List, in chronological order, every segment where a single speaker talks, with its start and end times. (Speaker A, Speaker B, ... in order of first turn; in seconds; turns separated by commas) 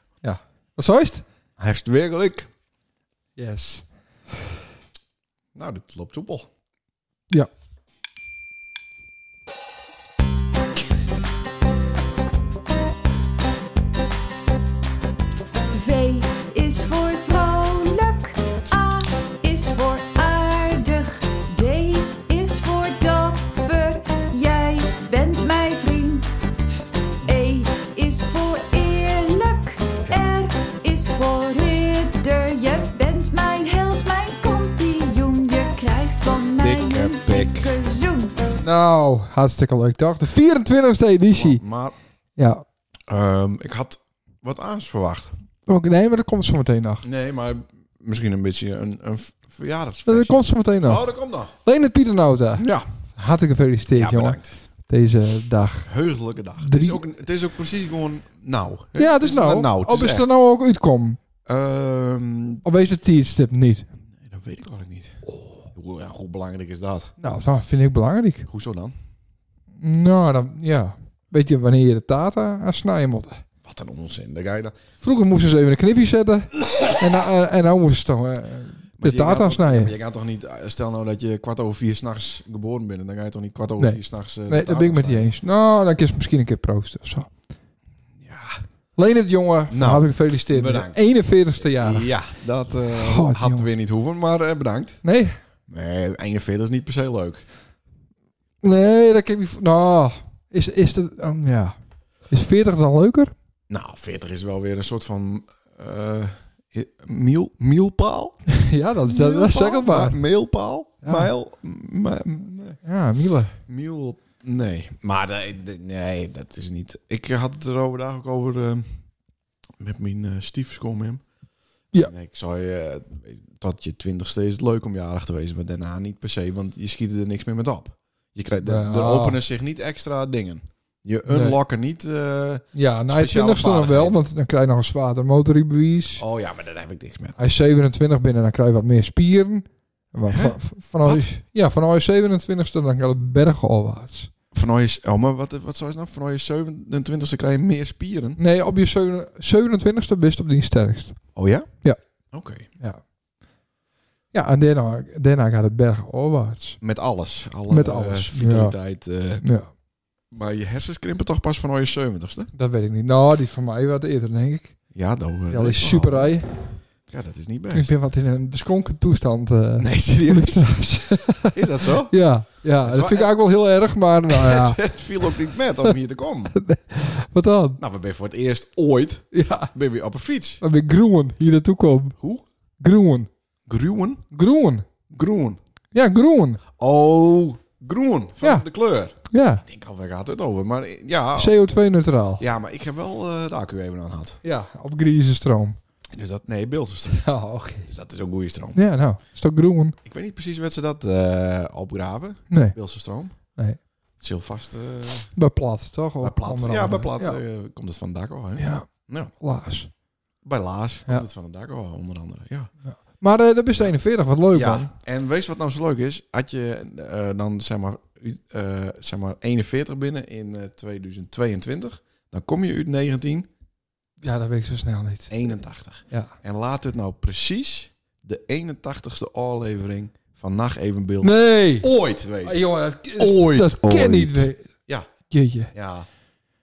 Speaker A: 0.2-1.2, Speaker B: 1.6-2.5, Speaker A: 3.4-3.9, Speaker B: 5.5-6.5, Speaker C: 15.7-26.4, Speaker C: 27.2-38.5, Speaker B: 36.6-37.7, Speaker A: 38.6-41.6, Speaker B: 41.3-41.9, Speaker A: 42.4-42.6, Speaker B: 43.1-45.3, Speaker A: 45.7-47.0, Speaker B: 47.0-51.5, Speaker A: 50.0-51.1, Speaker A: 51.6-55.9, Speaker B: 52.6-52.9, Speaker B: 53.9-54.6, Speaker B: 55.9-60.3, Speaker A: 56.6-57.0, Speaker A: 59.0-61.2, Speaker B: 61.4-62.6, Speaker A: 62.6-63.9, Speaker B: 64.2-65.2, Speaker B: 65.7-67.1, Speaker A: 67.2-68.5, Speaker B: 68.5-68.9, Speaker A: 69.8-73.4, Speaker B: 73.6-74.8, Speaker A: 75.0-79.9, Speaker B: 79.0-85.3, Speaker A: 83.8-87.3, Speaker B: 88.2-88.6, Speaker A: 89.0-92.1, Speaker B: 89.7-91.0, Speaker B: 91.6-95.0, Speaker A: 92.9-93.7, Speaker A: 95.0-95.3, Speaker B: 95.7-97.4, Speaker A: 98.6-101.7, Speaker A: 102.3-103.3, Speaker B: 103.7-108.4, Speaker A: 108.5-110.2, Speaker B: 109.0-112.8, Speaker A: 111.0-111.3, Speaker A: 112.8-113.5, Speaker B: 113.7-119.0, Speaker B: 119.8-121.2, Speaker B: 122.0-134.2, Speaker A: 128.6-129.4, Speaker A: 131.3-131.6, Speaker A: 132.7-136.2, Speaker B: 136.2-137.4, Speaker A: 137.4-144.3, Speaker B: 140.3-141.3, Speaker B: 144.5-148.4, Speaker A: 148.4-151.2, Speaker B: 151.3-151.7, Speaker B: 152.3-152.7, Speaker A: 154.3-156.8, Speaker B: 156.8-159.4, Speaker A: 157.7-158.8, Speaker A: 159.4-159.7, Speaker B: 160.3-162.5, Speaker A: 162.5-164.8, Speaker B: 164.9-166.3, Speaker A: 165.5-166.6, Speaker B: 167.1-167.9, Speaker A: 167.7-175.9, Speaker B: 169.8-170.8, Speaker B: 171.4-172.2, Speaker B: 172.8-173.3, Speaker B: 174.3-176.6, Speaker A: 176.5-177.8, Speaker B: 177.8-180.6, Speaker A: 179.3-179.7, Speaker A: 180.6-182.2, Speaker B: 182.2-182.4, Speaker A: 182.8-183.3, Speaker B: 183.7-184.2, Speaker A: 184.3-184.9, Speaker B: 185.1-185.6, Speaker A: 185.9-186.6, Speaker B: 186.8-191.6, Speaker A: 188.4-188.7, Speaker A: 189.3-189.6, Speaker A: 191.3-192.4, Speaker B: 192.4-194.4, Speaker A: 194.4-195.8, Speaker B: 196.1-197.3, Speaker A: 197.1-197.9, Speaker B: 197.8-198.8, Speaker A: 198.7-199.9, Speaker B: 200.0-203.3, Speaker A: 202.5-202.8, Speaker B: 204.2-205.3, Speaker A: 205.3-207.4, Speaker B: 206.2-209.3, Speaker A: 208.6-208.9, Speaker A: 209.4-209.9, Speaker B: 210.4-212.7, Speaker A: 212.8-214.9, Speaker B: 214.5-223.5, Speaker A: 224.2-225.5, Speaker B: 225.3-235.1, Speaker A: 226.1-226.3, Speaker A: 231.2-231.9, Speaker A: 232.4-234.7, Speaker A: 235.3-235.7, Speaker B: 235.7-236.1